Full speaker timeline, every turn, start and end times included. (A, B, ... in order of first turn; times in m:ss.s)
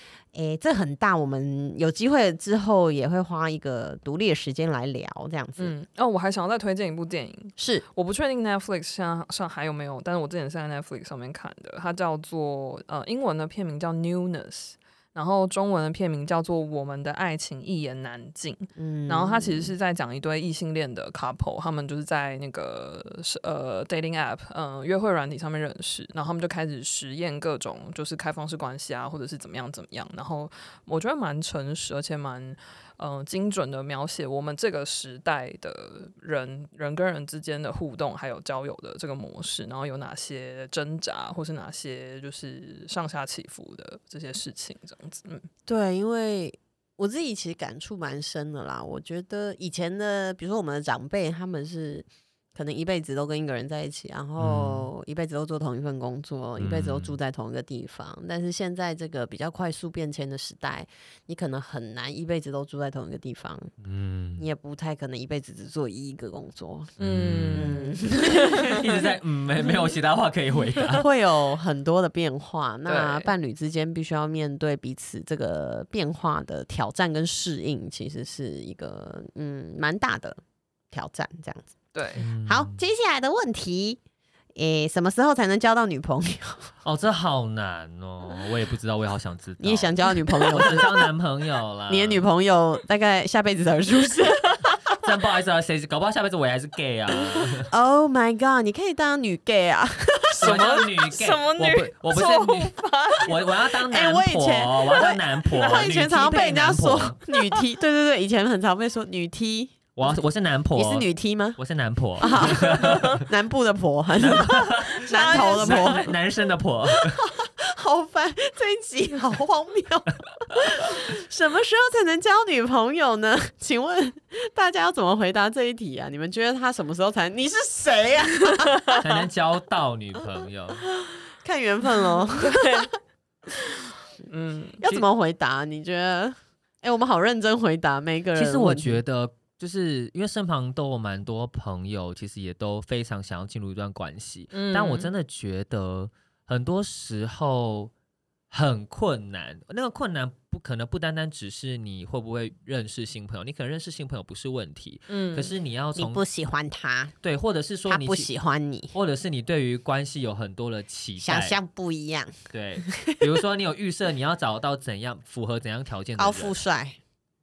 0:00.3-0:05.8 A
0:05.6-0:45.5 B
0:07.6-0:07.8 A
0:18.8-0:19.7 A
0:45.7-1:03.7 A
0:54.4-0:54.9 C
0:56.6-0:57.2 C
1:03.8-1:04.4 C
1:04.4-1:06.9 A
1:07.0-1:07.8 C
1:07.0-1:08.7 B
1:07.5-1:09.0 A
1:08.6-1:11.1 C
1:10.9-1:20.4 A
1:12.9-1:13.3 B
1:20.9-1:21.7 A
1:21.9-1:22.3 B
1:22.2-1:22.8 C
1:22.4-1:24.0 A
1:24.6-1:26.7 A
1:26.8-1:32.2 C
1:29.6-1:31.0 A
1:31.9-1:34.8 A
1:35.0-1:37.7 C
1:37.7-1:40.7 A
1:40.4-1:47.2 C
1:40.4-1:43.4 B
1:43.9-1:49.8 A
1:47.3-1:47.6 B
1:50.0-1:53.2 C
1:50.8-1:51.6 A
1:52.2-1:56.1 A
1:52.4-1:53.2 B
1:54.2-1:57.2 C
1:54.9-1:56.1 B
1:57.0-2:09.0 A
2:09.0-2:10.9 C
2:11.0-2:12.9 A
2:12.4-2:12.9 B
2:14.3-2:14.9 B
2:14.8-2:19.0 A
2:18.4-2:27.9 C
2:24.5-2:25.1 B
2:28.5-2:36.2 C
2:35.1-2:35.5 B
2:36.0-2:37.2 A
2:37.2-2:38.3 C
2:37.9-2:39.0 A
2:38.9-2:41.6 C
2:41.2-2:42.4 A
2:42.5-2:46.6 C
2:42.9-2:43.2 A
2:46.2-2:47.0 A